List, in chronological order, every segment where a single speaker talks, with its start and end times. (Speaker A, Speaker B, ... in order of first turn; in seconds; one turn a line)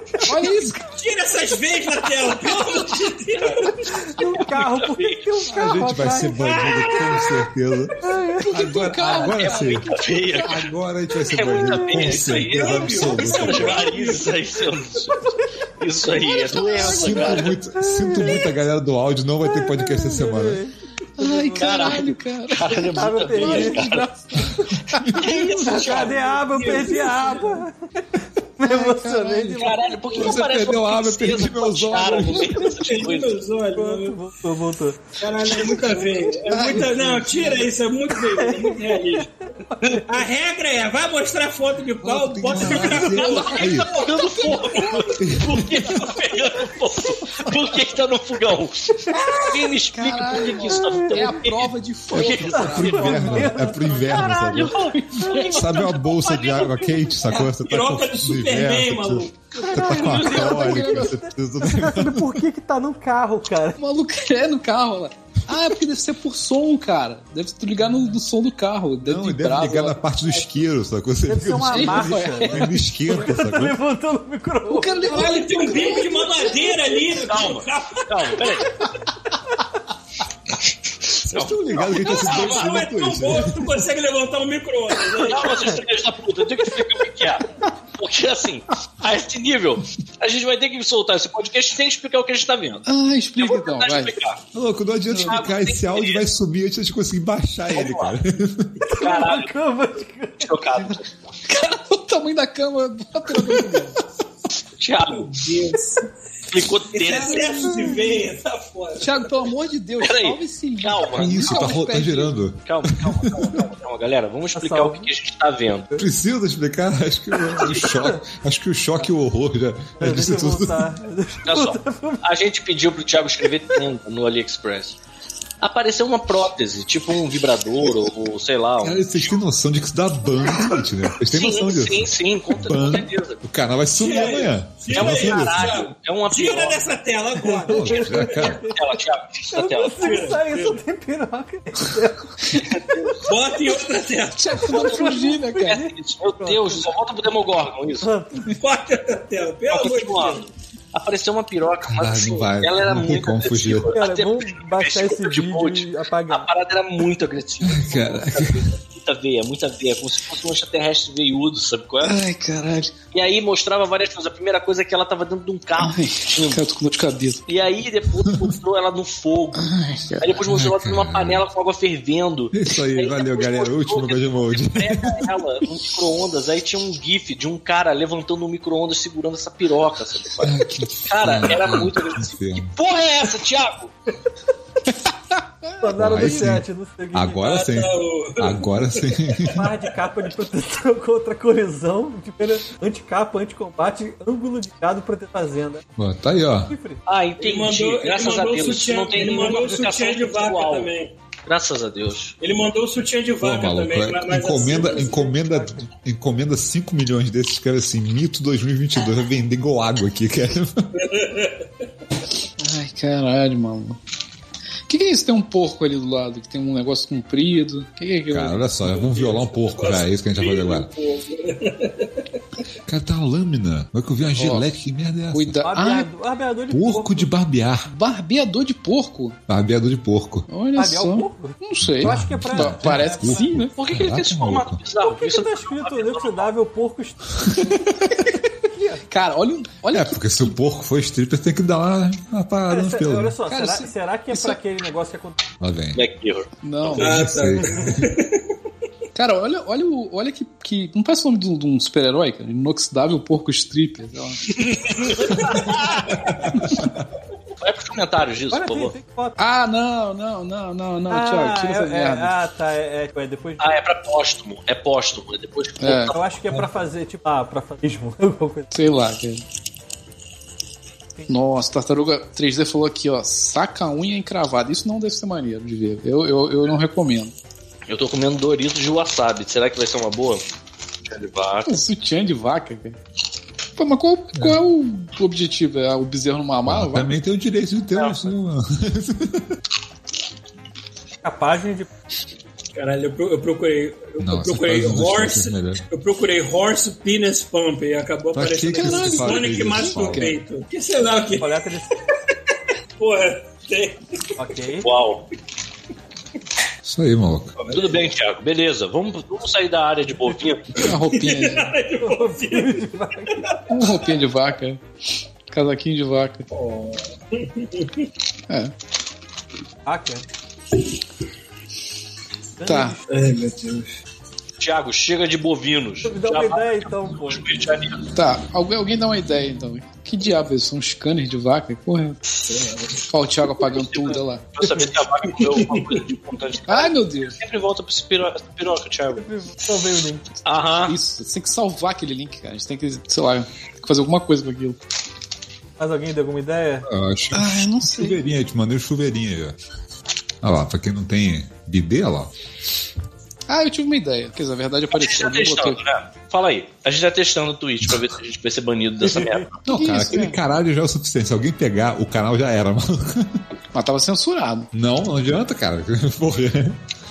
Speaker A: 0.2-0.8
Speaker B: 0.8-3.9
Speaker C: 3.4-3.6
Speaker D: 3.8-6.7
Speaker C: 4.2-5.2
Speaker E: 5.5-8.0
Speaker B: 6.4-7.3
Speaker D: 8.0-8.5
Speaker A: 8.4-10.3
Speaker E: 8.5-9.9
Speaker C: 9.2-10.7
Speaker E: 10.4-13.9
Speaker C: 11.3-15.2
Speaker D: 11.5-12.1
Speaker B: 12.1-14.7
Speaker C: 15.8-17.5
Speaker A: 16.2-17.6
Speaker E: 16.8-20.6
Speaker D: 17.8-18.5
Speaker D: 19.5-22.0
Speaker A: 21.2-25.1
Speaker C: 21.6-24.1
Speaker D: 22.9-23.9
Speaker E: 24.9-25.7
Speaker C: 25.2-26.2
Speaker D: 25.6-27.8
Speaker B: 25.6-27.6
Speaker D: 28.6-29.8
Speaker A: 28.6-29.7
Speaker C: 29.6-33.4
Speaker E: 30.1-32.7
Speaker B: 32.7-34.2
Speaker D: 33.8-35.0
Speaker B: 35.2-39.3
Speaker A: 36.5-37.6
Speaker D: 38.3-39.1
Speaker D: 39.7-40.0
Speaker B: 40.1-45.1
Speaker E: 42.0-44.1
Speaker C: 43.2-53.5
Speaker A: 44.2-45.1
Speaker E: 45.2-46.0
Speaker A: 49.1-53.5
Speaker D: 50.8-51.3
Speaker E: 52.1-54.8
Speaker D: 52.5-54.4
Speaker C: 54.1-57.1
Speaker A: 54.5-55.9
Speaker E: 55.4-62.4
Speaker B: 57.6-59.8
Speaker D: 59.6-63.8
Speaker A: 59.7-61.2
Speaker C: 60.0-60.6
Speaker A: 63.8-70.0
Speaker E: 69.0-73.8
Speaker D: 71.3-75.4
Speaker A: 71.7-73.2
Speaker A: 74.7-76.7
Speaker B: 75.1-78.6
Speaker C: 77.2-78.7
Speaker E: 81.2-83.7
Speaker C: 81.3-82.7
Speaker B: 81.8-85.8
Speaker C: 85.2-92.9
Speaker A: 92.9-94.2
Speaker C: 93.4-94.4
Speaker E: 94.5-98.8
Speaker C: 95.2-96.2
Speaker C: 97.7-98.2
Speaker D: 98.9-100.5
Speaker C: 99.0-99.5
Speaker C: 100.4-101.1
Speaker A: 101.5-104.0
Speaker C: 104.8-105.3
Speaker B: 105.1-106.1
Speaker C: 106.5-107.7
Speaker B: 106.9-109.3
Speaker A: 107.8-108.1
Speaker A: 109.0-112.3
Speaker C: 110.0-111.8
Speaker E: 111.2-113.6
Speaker C: 112.7-115.9
Speaker D: 114.5-115.1
Speaker E: 116.0-120.9
Speaker D: 117.7-118.2
Speaker D: 120.0-122.2
Speaker C: 121.5-125.0
Speaker C: 125.6-129.1
Speaker E: 128.8-135.8
Speaker B: 130.5-130.8
Speaker C: 131.3-133.4
Speaker B: 133.9-138.6
Speaker C: 134.9-136.8
Speaker D: 137.4-138.8
Speaker E: 137.6-138.7
Speaker C: 138.7-140.1
Speaker D: 139.5-142.5
Speaker B: 140.0-140.8
Speaker C: 142.7-143.2
Speaker B: 143.2-144.7
Speaker A: 144.3-145.8
Speaker D: 144.7-146.9
Speaker C: 145.7-148.1
Speaker D: 148.0-148.4
Speaker B: 148.5-150.5
Speaker C: 149.7-162.2
Speaker E: 151.8-153.9
Speaker D: 153.9-156.5
Speaker E: 157.6-158.7
Speaker A: 162.0-162.9
Speaker C: 163.1-166.6
Speaker A: 165.8-167.4
Speaker C: 167.5-180.6
Speaker A: 169.6-170.4
Speaker E: 170.4-171.4
Speaker E: 172.5-175.3
Speaker E: 180.4-182.8
Speaker C: 181.1-183.9
Speaker A: 185.1-186.4
Speaker D: 185.8-187.5
Speaker E: 185.9-189.6
Speaker B: 187.4-189.7
Speaker D: 189.5-195.8
Speaker E: 196.0-196.7
Speaker D: 196.7-197.0
Speaker C: 197.1-200.9
Speaker B: 197.4-201.1
Speaker C: 201.5-202.3
Speaker B: 202.4-205.3
Speaker E: 203.4-210.9
Speaker D: 205.0-205.9
Speaker B: 211.0-211.7
Speaker A: 212.6-214.0
Speaker A: 214.9-218.7
Speaker E: 218.3-220.9
Speaker B: 219.0-222.2
Speaker D: 219.2-219.6
Speaker E: 222.9-225.6
Speaker A: 224.3-224.7
Speaker A: 225.3-226.1
Speaker D: 225.6-227.3
Speaker E: 226.7-227.9
Speaker A: 227.9-229.4
Speaker E: 229.5-230.5
Speaker A: 230.5-233.7
Speaker D: 230.8-233.6
Speaker E: 231.8-234.8
Speaker C: 233.8-236.5
Speaker D: 235.0-237.5
Speaker A: 238.0-238.3
Speaker D: 238.5-239.0
Speaker A: 239.1-240.5
Speaker E: 239.9-243.4
Speaker D: 242.7-245.4
Speaker A: 243.4-244.6
Speaker E: 245.6-246.0
Speaker C: 245.9-247.0
Speaker A: 246.6-247.3
Speaker E: 246.9-248.1
Speaker B: 247.0-248.4
Speaker D: 247.6-247.9
Speaker A: 249.2-254.4
Speaker B: 254.9-256.4
Speaker C: 255.2-256.3
Speaker C: 257.6-258.9
Speaker D: 258.5-259.4
Speaker A: 259.4-262.3
Speaker D: 261.1-263.8
Speaker C: 263.6-266.2
Speaker A: 265.8-266.2
Speaker D: 266.1-268.7
Speaker A: 268.7-269.4
Speaker A: 271.3-277.3
Speaker C: 277.9-280.4
Speaker C: 281.1-281.8
Speaker A: 281.6-283.0
Speaker A: 283.8-287.2
Speaker E: 286.7-289.5
Speaker D: 291.2-291.9
Speaker B: 292.7-301.6
Speaker E: 294.2-295.8
Speaker E: 298.3-300.3
Speaker A: 298.7-300.4
Speaker D: 301.4-301.9
Speaker B: 303.0-304.0
Speaker D: 304.4-304.9
Speaker C: 304.8-305.2
Speaker E: 306.9-307.6
Speaker B: 307.6-308.0
Speaker C: 307.7-310.8
Speaker A: 310.8-311.7
Speaker B: 311.1-312.8
Speaker D: 312.0-313.5
Speaker B: 313.6-314.0
Speaker A: 313.7-314.8
Speaker A: 315.5-316.5
Speaker B: 316.5-318.0
Speaker D: 319.9-320.2
Speaker D: 322.6-323.1
Speaker A: 322.6-323.0
Speaker B: 323.1-323.9
Speaker C: 324.6-328.1
Speaker D: 326.0-327.5
Speaker A: 328.1-332.2
Speaker B: 332.4-333.1
Speaker A: 333.1-334.4
Speaker C: 333.6-339.2
Speaker B: 335.4-336.1
Speaker A: 336.7-337.4
Speaker D: 339.2-340.2
Speaker C: 340.4-340.9
Speaker A: 340.9-344.8
Speaker D: 345.8-346.9
Speaker E: 346.9-349.6
Speaker A: 347.3-348.2
Speaker E: 350.4-352.3
Speaker A: 353.5-355.8
Speaker C: 354.9-359.6
Speaker D: 359.1-359.4
Speaker E: 359.7-363.4
Speaker A: 359.7-360.4
Speaker A: 363.7-364.7
Speaker E: 364.7-366.8